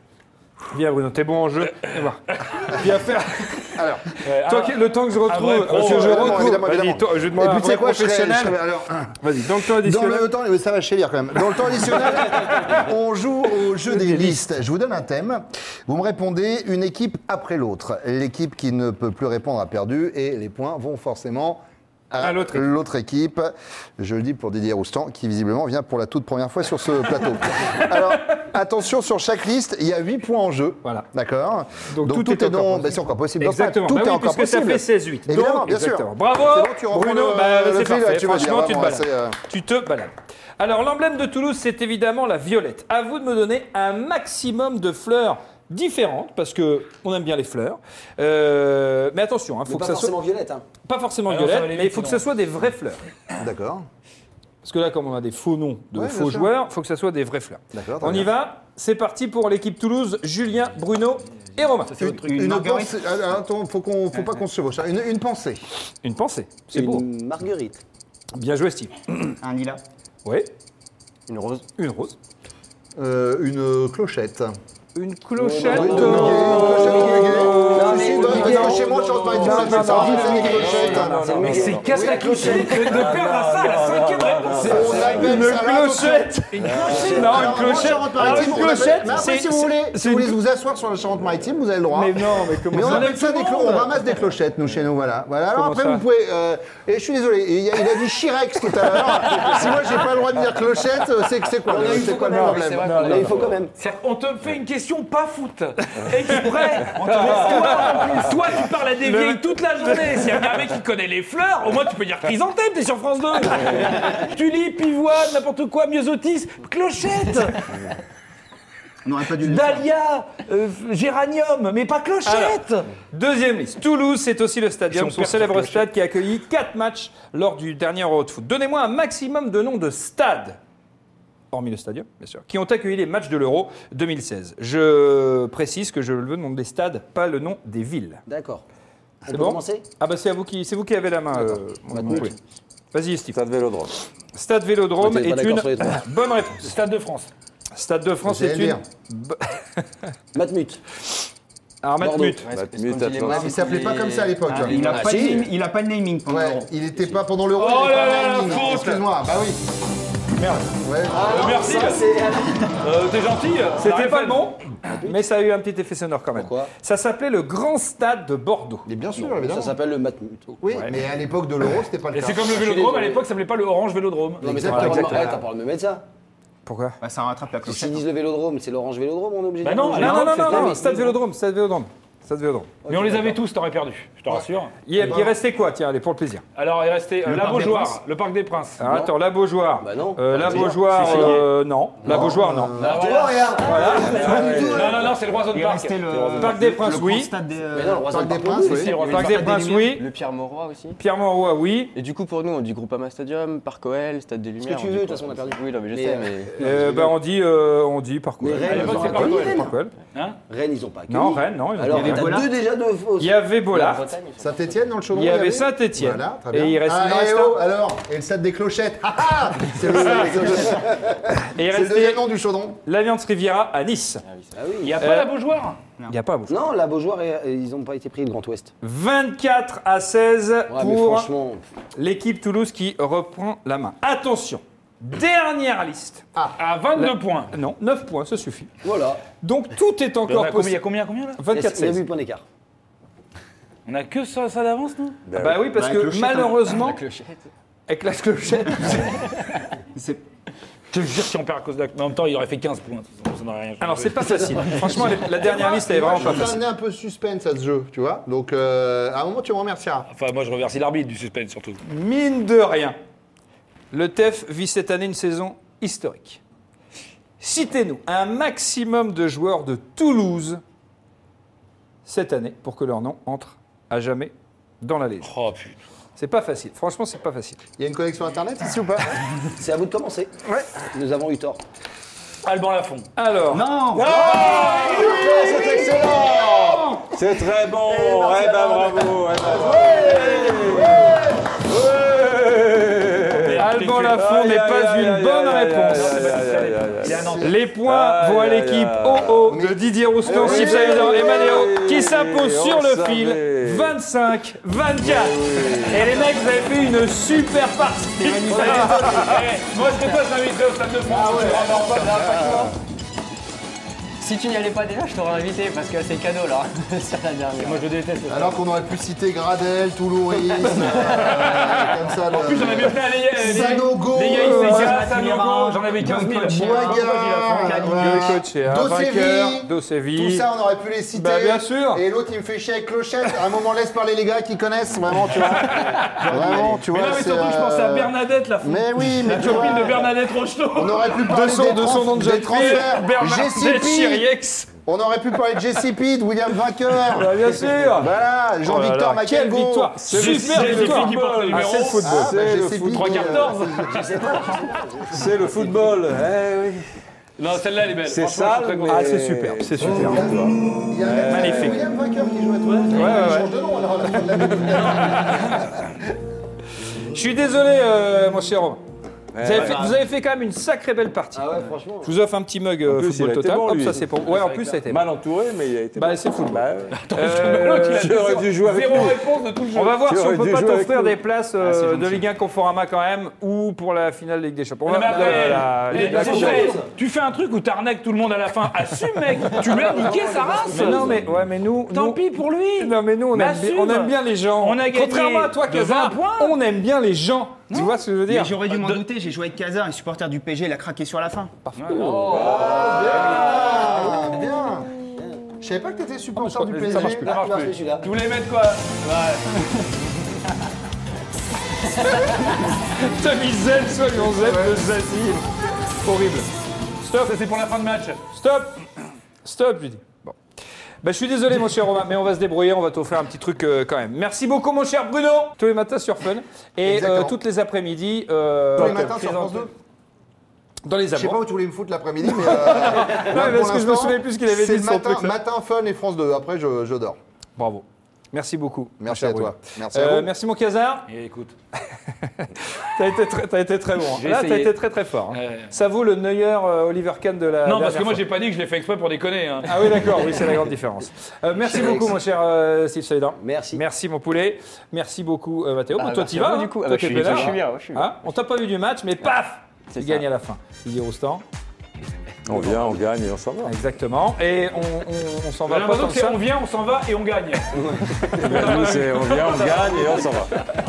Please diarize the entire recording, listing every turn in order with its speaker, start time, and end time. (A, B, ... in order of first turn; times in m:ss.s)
0:00.7-0:03.8 A
0:03.8-0:04.0 B
0:04.2-0:06.5 C
0:04.4-0:08.6 A
0:05.7-0:39.4 B
0:09.2-0:10.3 A
0:13.9-0:14.4 A
0:22.2-0:22.7 A
0:31.9-0:50.1 A
0:49.7-0:50.6 D
0:50.9-0:53.0 A
0:51.3-0:52.2 C
0:53.4-0:53.9 B
0:54.6-1:02.0 A
0:56.0-0:56.5 B
0:57.7-0:58.3 B
1:01.9-1:02.2 C
1:02.0-1:05.6 B
1:02.1-1:03.0 E
1:06.0-1:07.0 A
1:06.7-1:07.8 D
1:08.4-1:09.4 A
1:09.4-1:09.8 E
1:10.2-1:10.5 A
1:11.3-1:11.6 F
1:11.8-1:12.2 A
1:13.0-1:14.5 B
1:15.0-1:21.2 A
1:15.4-1:23.2 D
1:15.6-1:20.3 F
1:15.6-1:21.2 B
1:18.0-1:18.6 E
1:20.3-1:22.0 G
1:21.3-1:25.1 C
1:21.8-1:22.7 B
1:22.7-1:25.2 G
1:24.5-1:25.4 D
1:24.6-1:43.3 B
1:25.0-1:30.4 A
1:26.6-1:27.3 C
1:26.7-1:28.9 D
1:31.9-1:34.0 A
1:35.5-1:36.0 A
1:41.7-1:43.7 D
1:41.8-1:43.6 F
1:42.3-1:43.5 A
1:43.8-1:57.7 C
1:46.1-1:48.4 A
1:47.0-1:47.4 F
1:47.2-1:47.9 E
1:49.0-1:50.5 A
1:59.0-1:59.9 E
1:59.4-2:02.9 C
2:02.2-2:10.6 A
2:04.9-2:05.9 C
2:11.5-2:18.2 A
2:18.3-2:18.6 D
2:19.3-2:19.8 D
2:19.3-2:22.4 A
2:21.3-2:22.3 D
2:22.9-2:23.4 A
2:23.3-2:23.9 G
2:24.3-2:26.7 A
2:25.0-2:26.0 D
2:26.6-2:27.3 C
2:27.8-2:29.6 A
2:28.2-2:28.8 B
2:30.3-2:30.8 D
2:31.8-2:32.4 A
2:32.0-2:32.4 D
2:32.4-2:35.5 F
2:32.5-2:33.6 G
2:33.3-2:35.1 B
2:34.4-2:36.7 E
2:34.7-2:35.5 D
2:36.3-2:39.6 B
2:37.6-2:39.1 C
2:40.4-2:42.1 C
2:40.8-2:41.8 B
2:41.1-2:42.8 D
2:42.8-2:44.5 C
2:43.8-2:48.9 A
2:44.8-2:45.2 D
2:46.4-2:46.7 D
2:48.9-2:49.8 B
2:49.2-2:50.6 D
2:50.6-2:52.6 B
2:52.1-2:55.1 C
2:52.5-2:53.2 D
2:54.4-2:56.1 D
2:54.4-2:55.4 B
2:54.6-2:55.4 A
2:56.7-2:57.0 A
2:57.0-2:58.0 E
2:57.6-3:01.2 D
2:59.6-3:00.8 C
2:59.9-3:02.7 A
3:02.8-3:03.4 D
3:02.9-3:04.8 C
3:04.9-3:06.4 A
3:05.0-3:05.3 B
3:06.6-3:08.8 C
3:07.2-3:08.0 E
3:08.8-3:12.8 A
3:08.8-3:09.1 D
3:09.8-3:11.4 D
3:10.4-3:11.5 C
3:12.0-3:13.2 B
3:12.0-3:15.1 D
3:12.8-3:16.6 C
3:13.6-3:14.6 A
3:13.9-3:19.9 E
3:14.4-3:14.9 G
3:16.4-3:17.3 A
3:17.7-3:19.4 D
3:18.1-3:19.0 B
3:18.7-3:19.4 C
3:18.8-3:21.0 F
3:19.1-3:20.1 A
3:21.0-3:21.9 A
3:22.0-3:26.7 F
3:24.6-3:27.2 D
3:26.6-3:29.9 A
3:28.4-3:29.7 D
3:28.6-3:30.4 C
3:30.5-3:33.4 D
3:31.1-3:32.3 A
3:31.9-3:32.5 E
3:33.2-3:34.1 A
3:33.7-3:34.5 F
3:34.4-3:42.8 B
3:35.1-3:37.6 A
3:39.9-3:41.0 D
3:41.5-3:42.2 A
3:42.8-3:44.2 A
3:44.6-3:45.0 D
3:44.8-3:45.8 C
3:45.0-3:45.3 A
3:46.1-3:46.6 A
3:46.5-3:48.7 D
3:48.8-3:51.3 A
3:50.7-3:51.6 D
3:52.0-3:56.3 A
3:56.6-3:57.5 C
3:57.0-3:58.7 A
3:58.8-3:59.2 D
3:59.4-4:00.8 A
4:00.3-4:01.4 C
4:01.4-4:02.1 A
4:01.5-4:02.4 D
4:03.9-4:05.2 C
4:05.3-4:05.7 G
4:05.4-4:07.0 A
4:05.7-4:06.5 E
4:06.4-4:07.5 F
4:07.9-4:09.3 A
4:10.0-4:10.2 E
4:10.9-4:14.9 C
4:13.8-4:16.6 A
4:15.4-4:20.1 B
4:20.1-4:21.8 C
4:21.8-4:23.0 A
4:23.9-4:26.4 A
4:27.4-4:30.6 A
4:32.1-4:35.3 A
4:35.2-4:35.8 C
4:36.2-4:37.6 A
4:37.8-4:39.2 B
4:39.6-4:41.6 D
4:42.4-4:43.1 C
4:43.2-4:47.0 A
4:43.5-4:44.7 E
4:44.0-4:59.5 G
4:44.1-4:46.5 D
4:44.4-4:44.9 C
4:47.8-4:51.2 D
4:50.8-4:51.1 B
4:53.4-4:54.2 C
4:53.6-4:56.2 A
4:55.9-4:57.6 C
4:57.4-5:09.5 A
4:59.5-4:59.9 B
5:00.2-5:04.0 G
5:00.4-5:01.4 B
5:05.0-5:06.3 G
5:08.2-5:09.0 E
5:08.5-5:12.4 C
5:08.6-5:09.1 B
5:11.1-5:12.7 B
5:11.7-5:12.7 F
5:14.2-5:17.9 F
5:17.6-5:18.6 C
5:18.3-5:24.9 B
5:20.5-5:21.4 F
5:21.1-5:28.2 C
5:24.4-5:25.0 A
5:24.4-5:27.0 E
5:26.5-5:40.1 B
5:28.0-5:30.5 A
5:31.1-5:32.0 A
5:35.8-5:36.6 A
5:36.9-5:41.2 C
5:39.4-5:39.6 A
5:40.8-5:44.3 B
5:41.3-5:44.7 A
5:44.9-5:50.0 B
5:47.1-5:52.4 A
5:50.0-5:53.2 G
5:50.1-5:52.0 C
5:52.0-5:54.1 B
5:52.9-5:54.1 C
5:53.8-5:55.9 D
5:55.1-5:56.9 G
5:57.4-5:59.1 C
5:58.0-6:01.8 G
5:58.9-6:00.3 A
5:59.9-6:05.6 B
6:01.3-6:01.8 A
6:02.7-6:03.0 C
6:02.9-6:03.5 A
6:04.2-6:05.6 A
6:07.0-6:08.8 A
6:09.3-6:10.0 G
6:09.4-6:15.1 A
6:11.4-6:12.2 D
6:12.8-6:14.2 G
6:14.3-6:14.8 C
6:14.8-6:17.0 G
6:16.0-6:18.4 A
6:17.0-6:20.0 C
6:17.8-6:19.3 G
6:19.7-6:26.8 A
6:20.0-6:21.2 G
6:24.8-6:31.2 C
6:25.1-6:26.8 D
6:26.2-6:26.4 F
6:29.7-6:31.2 D
6:30.7-6:32.2 A
6:31.9-6:36.6 C
6:32.8-6:38.6 A
6:37.7-6:38.0 C
6:38.3-6:41.5 E
6:38.7-6:39.1 C
6:41.7-6:42.3 A
6:41.8-6:44.2 C
6:42.0-6:44.0 D
6:42.2-6:42.8 F
6:42.4-6:44.9 B
6:45.1-6:45.4 D
6:45.6-6:47.3 B
6:46.4-6:47.4 A
6:46.8-6:49.9 C
6:46.9-6:48.1 D
6:52.3-6:55.4 A
6:54.4-6:54.8 B
6:56.0-6:56.5 A
6:57.0-6:57.4 A
6:57.2-6:58.2 C
6:58.3-6:58.8 A
6:59.4-7:00.4 A
7:01.0-7:09.5 A
7:06.8-7:07.4 B
7:08.8-7:09.7 B
7:08.8-7:09.6 C
7:10.9-7:11.4 A
7:11.1-7:17.2 B
7:12.3-7:15.4 A
7:17.6-7:21.1 A
7:19.0-7:20.3 B
7:21.1-7:21.6 C
7:22.4-7:28.2 A
7:24.2-7:24.8 C
7:25.3-7:25.7 C
7:27.6-7:30.1 C
7:29.6-7:41.4 A
7:31.6-7:32.2 D
7:33.4-7:33.8 D
7:35.9-7:38.2 F
7:39.9-7:40.3 F
7:42.5-7:43.8 G
7:42.6-7:42.9 F
7:43.6-7:46.4 A
7:45.7-7:50.6 C
7:48.3-7:50.6 G